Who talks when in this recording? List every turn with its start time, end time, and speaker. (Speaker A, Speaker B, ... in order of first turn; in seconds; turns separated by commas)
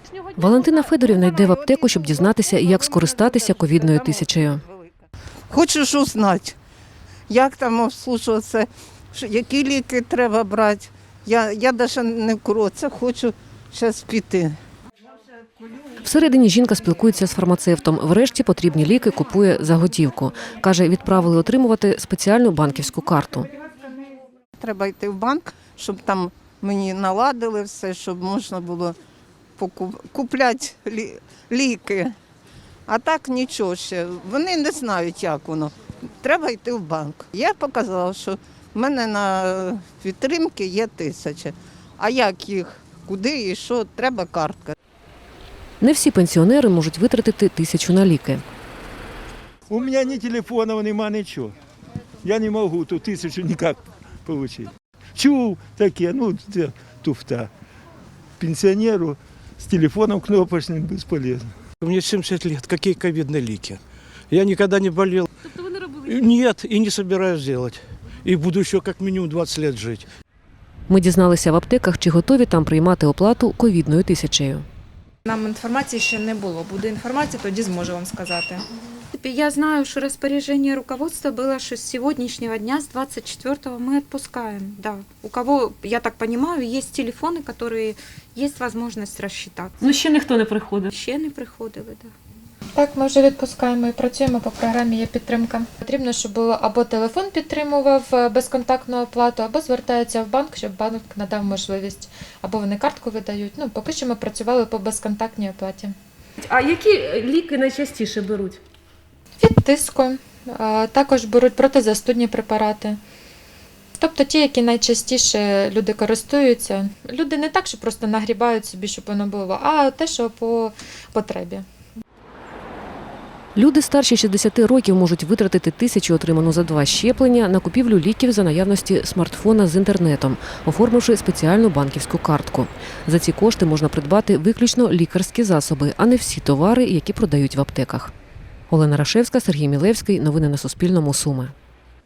Speaker A: 0.4-4.6, Speaker B: 5.5-6.5, Speaker B: 7.3-14.6, Speaker A: 16.0-23.5, Speaker B: 24.6-28.9, Speaker B: 29.6-32.1, Speaker B: 32.9-44.8, Speaker A: 45.8-48.4, Speaker C: 49.7-51.5, Speaker C: 52.2-57.5, Speaker C: 58.4-61.5, Speaker D: 61.8-70.1, Speaker A: 70.9-74.6, Speaker E: 75.3-78.6, Speaker F: 79.1-89.8, Speaker G: 89.8-90.9, Speaker F: 90.8-92.1, Speaker H: 92.7-105.9, Speaker G: 106.4-108.6, Speaker H: 109.4-113.0, Speaker H: 114.0-121.6, Speaker A: 123.5-138.1, Speaker A: 138.7-141.5